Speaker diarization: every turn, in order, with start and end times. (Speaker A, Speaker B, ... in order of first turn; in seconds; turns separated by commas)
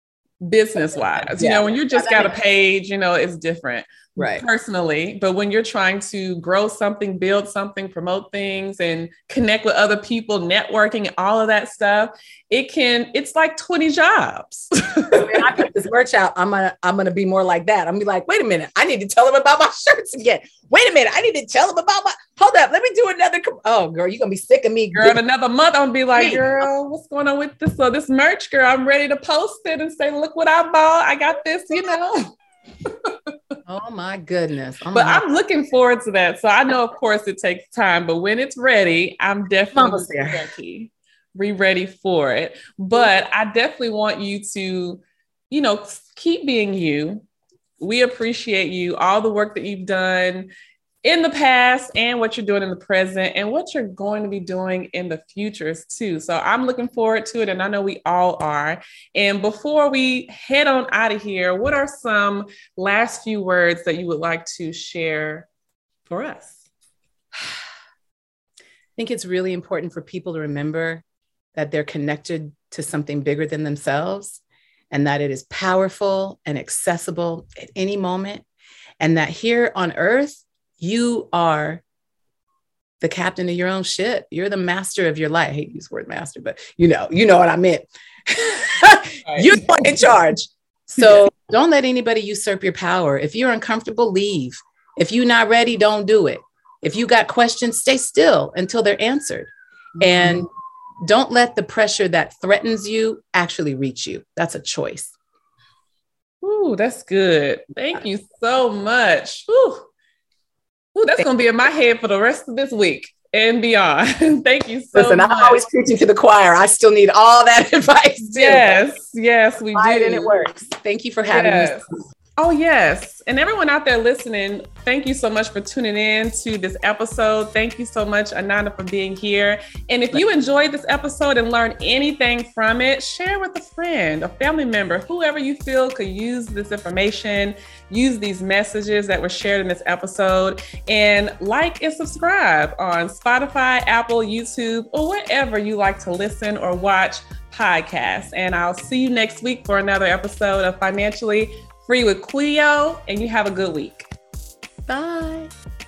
Speaker A: 0.4-15.6, Speaker B: 1.1-2.3, Speaker B: 4.2-4.4, Speaker B: 15.1-25.2, Speaker A: 24.9-33.1, Speaker B: 26.1-26.7, Speaker B: 33.7-35.2, Speaker A: 34.9-47.2, Speaker B: 39.7-40.4, Speaker A: 47.8-50.5, Speaker A: 51.0-65.5, Speaker A: 66.1-66.6, Speaker B: 69.0-71.0, Speaker B: 71.5-78.4, Speaker B: 79.0-81.8, Speaker B: 83.0-100.5, Speaker A: 89.2-89.6, Speaker A: 91.0-91.2, Speaker A: 100.0-100.4, Speaker B: 101.0-105.1, Speaker A: 106.4-109.9, Speaker A: 110.9-115.6, Speaker B: 114.9-118.8, Speaker A: 118.3-120.3, Speaker B: 119.7-121.8, Speaker A: 121.3-121.8, Speaker A: 122.4-154.1, Speaker B: 154.9-155.5